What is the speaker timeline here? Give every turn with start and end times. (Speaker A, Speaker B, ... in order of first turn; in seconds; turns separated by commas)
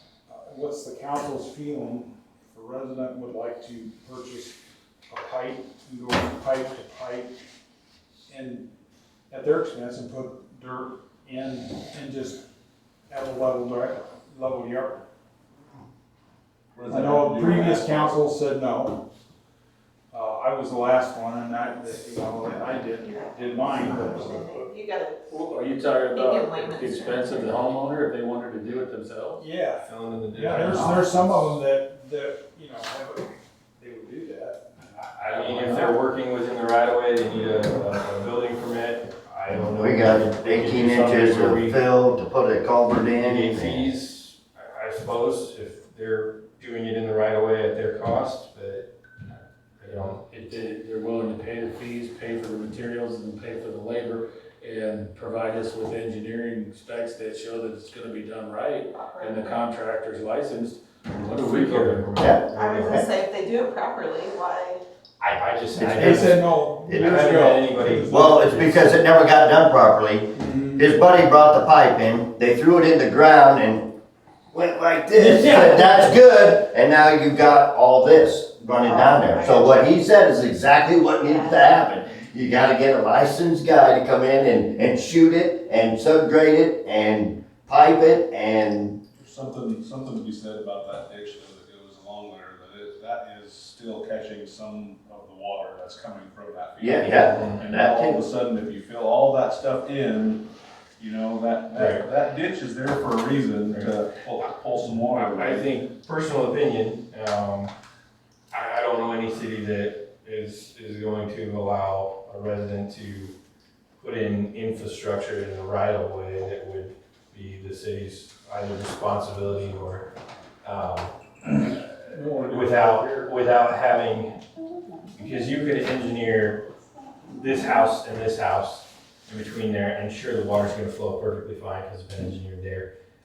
Speaker A: 0.3-4.6, Speaker A: 5.1-7.3, Speaker A: 8.3-8.7, Speaker A: 9.3-12.4, Speaker A: 13.1-15.0, Speaker B: 16.7-18.2, Speaker A: 16.9-19.0, Speaker A: 20.1-24.5, Speaker C: 23.8-25.4, Speaker D: 25.3-29.4, Speaker C: 26.1-27.4, Speaker A: 29.4-35.9, Speaker E: 29.8-31.6, Speaker D: 30.6-31.0, Speaker E: 35.2-41.8, Speaker D: 35.3-35.9, Speaker F: 39.7-43.9, Speaker E: 43.2-48.9, Speaker E: 49.8-50.2, Speaker D: 49.8-62.2, Speaker C: 59.0-59.5, Speaker E: 61.3-63.0, Speaker F: 62.2-63.1, Speaker C: 62.5-64.8, Speaker E: 65.2-68.5, Speaker A: 65.8-68.8, Speaker F: 66.9-67.1, Speaker F: 68.1-73.8, Speaker A: 70.4-70.9, Speaker F: 74.5-89.0, Speaker C: 78.8-79.8, Speaker C: 81.2-81.7, Speaker B: 89.2-100.4, Speaker F: 96.8-98.2, Speaker E: 97.0-97.6, Speaker B: 101.0-105.8, Speaker E: 101.7-102.0, Speaker E: 103.7-104.0, Speaker E: 105.1-107.7, Speaker E: 108.5-113.3, Speaker E: 114.0-120.1, Speaker E: 120.6-121.8, Speaker A: 122.1-123.3, Speaker E: 122.4-124.4, Speaker E: 125.2-126.6, Speaker E: 127.3-132.9